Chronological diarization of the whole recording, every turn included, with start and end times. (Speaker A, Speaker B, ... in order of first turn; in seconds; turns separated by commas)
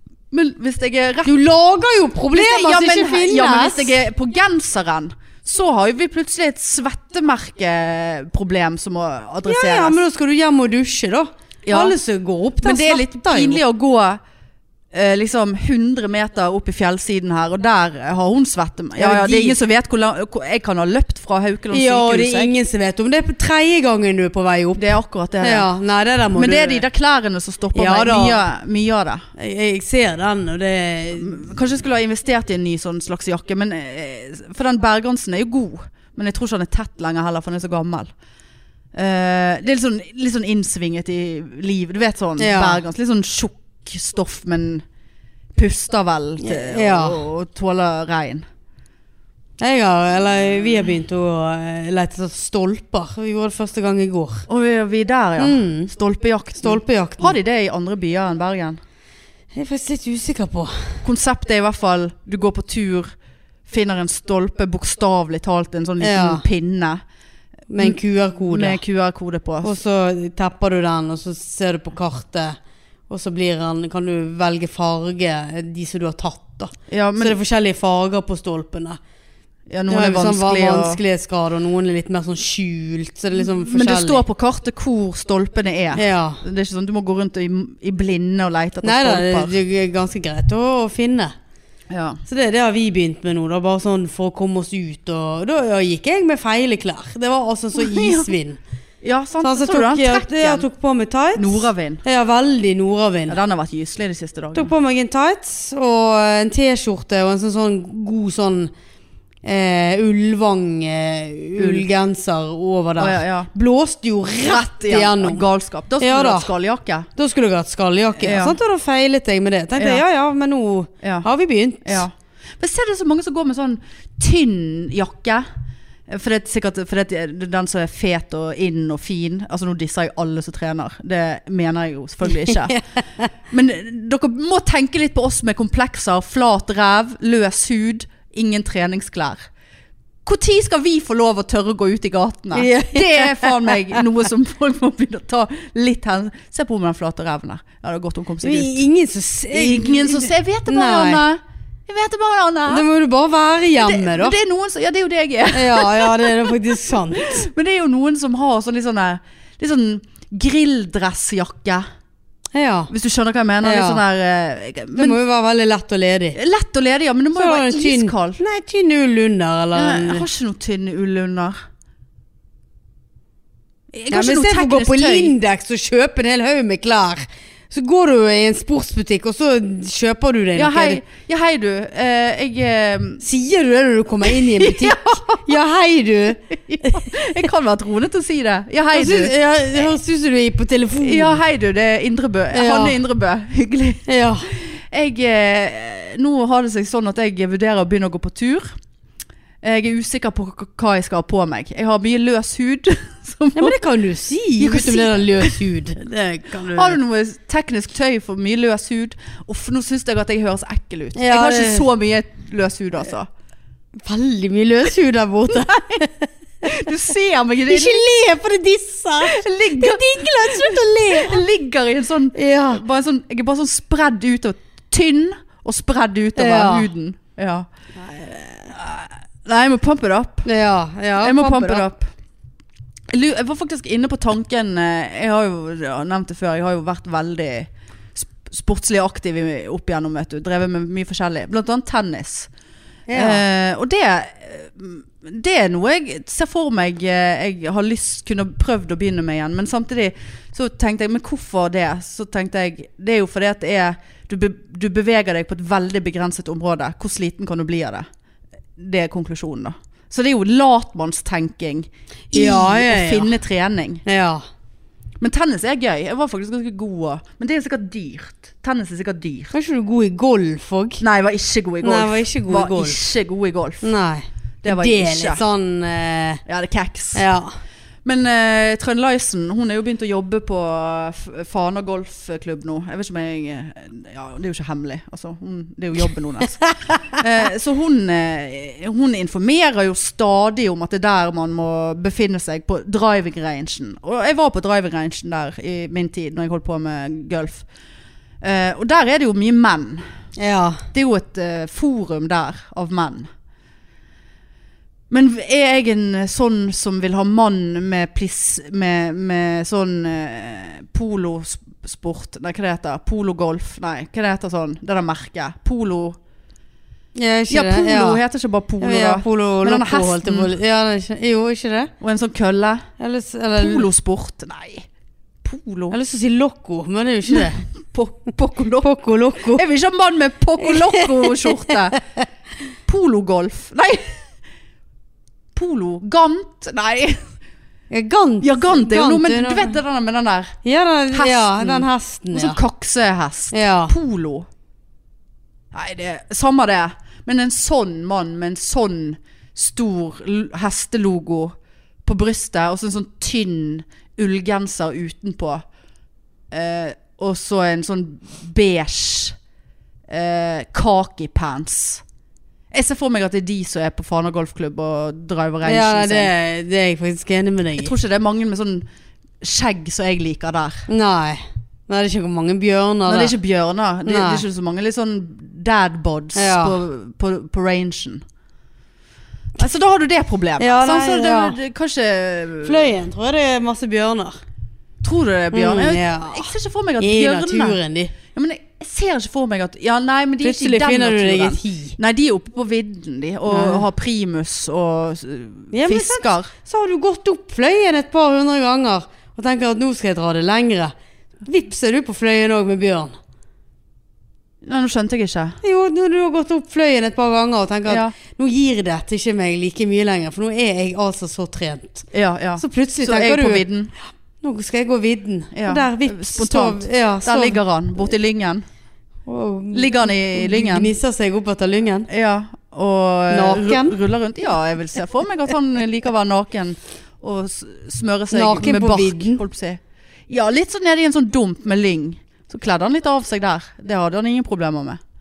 Speaker A: 0.3-1.3, Speaker B: 1.2-4.0, Speaker A: 2.3-10.0, Speaker B: 9.4-13.6, Speaker A: 11.6-11.9, Speaker A: 12.6-14.2, Speaker A: 14.9-22.5, Speaker B: 18.9-19.6, Speaker B: 21.7-24.8, Speaker A: 24.8-25.7, Speaker B: 25.4-26.8, Speaker A: 26.3-29.2, Speaker B: 27.7-28.4, Speaker B: 29.4-31.4, Speaker A: 31.1-38.1, Speaker A: 38.9-44.8, Speaker B: 42.4-42.8, Speaker A: 45.5-48.4, Speaker B: 46.4-47.2, Speaker B: 49.6-54.4, Speaker A: 54.5-58.8, Speaker B: 55.4-55.9, Speaker B: 56.6-57.4, Speaker B: 59.5-61.0, Speaker A: 61.0-63.1, Speaker A: 63.7-67.0, Speaker B: 66.0-66.4, Speaker B: 67.7-68.8, Speaker A: 67.8-69.8, Speaker B: 69.6-72.6, Speaker B: 73.1-79.0, Speaker A: 76.9-77.4, Speaker A: 79.7-81.0, Speaker B: 79.9-84.2, Speaker A: 83.3-89.5, Speaker B: 85.9-86.4, Speaker B: 88.8-91.3, Speaker A: 91.9-92.2, Speaker B: 92.3-98.6, Speaker A: 97.8-98.3, Speaker A: 99.0-100.7, Speaker B: 99.4-103.4, Speaker A: 101.3-102.0, Speaker A: 103.3-104.7, Speaker B: 104.5-108.7, Speaker B: 109.4-115.4, Speaker A: 111.6-111.8, Speaker A: 113.0-113.5, Speaker A: 114.4-117.1, Speaker B: 116.0-116.5, Speaker B: 117.2-122.0, Speaker A: 118.2-118.6, Speaker A: 119.8-120.0, Speaker A: 121.8-125.5, Speaker A: 126.1-132.8, Speaker B: 132.3-133.3, Speaker A: 133.5-139.4, Speaker A: 140.2-148.8, Speaker B: 142.5-144.0, Speaker B: 148.4-151.2, Speaker A: 149.5-152.8, Speaker B: 152.7-154.3, Speaker A: 153.8-161.8, Speaker B: 155.5-157.5, Speaker B: 162.5-162.9, Speaker A: 162.9-165.2, Speaker B: 163.6-164.0, Speaker B: 164.9-166.4, Speaker A: 166.3-168.4, Speaker B: 167.3-170.2, Speaker A: 169.7-171.5, Speaker A: 173.9-175.3, Speaker B: 174.1-181.0, Speaker A: 180.6-183.2, Speaker B: 183.2-187.1, Speaker A: 184.2-185.4, Speaker A: 186.5-189.9, Speaker B: 188.9-191.4, Speaker A: 191.0-198.7, Speaker B: 192.5-193.0, Speaker B: 194.1-194.5, Speaker A: 199.6-203.8, Speaker B: 203.5-207.0, Speaker A: 204.6-205.6, Speaker A: 206.7-213.3, Speaker B: 211.1-211.9, Speaker B: 214.1-216.3, Speaker A: 215.5-216.0, Speaker A: 216.6-218.0, Speaker B: 217.7-221.4, Speaker A: 219.2-227.7, Speaker B: 222.3-222.8, Speaker B: 226.3-226.9, Speaker B: 228.0-228.8, Speaker A: 228.7-230.5, Speaker B: 230.4-231.9, Speaker A: 231.2-232.1, Speaker A: 233.1-242.5, Speaker B: 243.1-243.4, Speaker A: 243.1-258.0, Speaker A: 258.8-264.0, Speaker B: 262.3-263.4, Speaker B: 264.0-264.4, Speaker A: 265.2-269.5, Speaker B: 269.5-271.0, Speaker A: 271.0-273.9, Speaker B: 271.8-273.0, Speaker B: 273.8-276.4, Speaker A: 274.6-275.4, Speaker A: 276.4-277.2, Speaker B: 277.1-277.5, Speaker A: 278.0-297.6, Speaker B: 286.6-287.2, Speaker A: 298.4-300.0, Speaker B: 300.4-300.9, Speaker A: 300.9-303.3, Speaker A: 305.1-316.2, Speaker B: 317.1-318.2, Speaker A: 317.5-320.5, Speaker B: 318.8-321.9, Speaker A: 322.0-322.8, Speaker B: 323.0-323.9, Speaker A: 323.6-324.9, Speaker A: 325.4-325.9, Speaker B: 325.9-327.6, Speaker A: 327.3-332.0, Speaker B: 328.8-329.6, Speaker B: 330.6-332.2, Speaker A: 332.9-334.2, Speaker A: 335.5-337.3, Speaker B: 337.9-339.8, Speaker A: 338.4-340.6, Speaker B: 340.6-342.6, Speaker A: 341.1-344.5, Speaker B: 343.5-343.9, Speaker A: 345.7-355.6, Speaker A: 356.5-359.4, Speaker A: 360.1-362.0, Speaker A: 362.7-366.3, Speaker B: 365.6-367.9, Speaker A: 367.8-368.9, Speaker A: 369.4-370.9, Speaker B: 370.9-373.3, Speaker A: 373.1-378.2, Speaker B: 374.0-374.4, Speaker B: 376.3-376.8, Speaker A: 379.6-382.9, Speaker B: 380.6-381.6, Speaker B: 382.6-384.4, Speaker A: 385.0-396.5, Speaker B: 385.5-388.1, Speaker B: 390.4-392.0, Speaker B: 393.5-393.9, Speaker B: 395.7-400.9, Speaker B: 401.4-403.2, Speaker A: 404.6-405.6, Speaker B: 405.6-412.1, Speaker A: 407.9-408.1, Speaker A: 412.1-413.9, Speaker B: 412.6-413.7, Speaker B: 414.4-417.6, Speaker A: 415.5-418.6, Speaker B: 419.2-422.1, Speaker A: 419.7-420.9, Speaker A: 422.1-435.0, Speaker B: 423.3-424.0, Speaker B: 428.3-429.4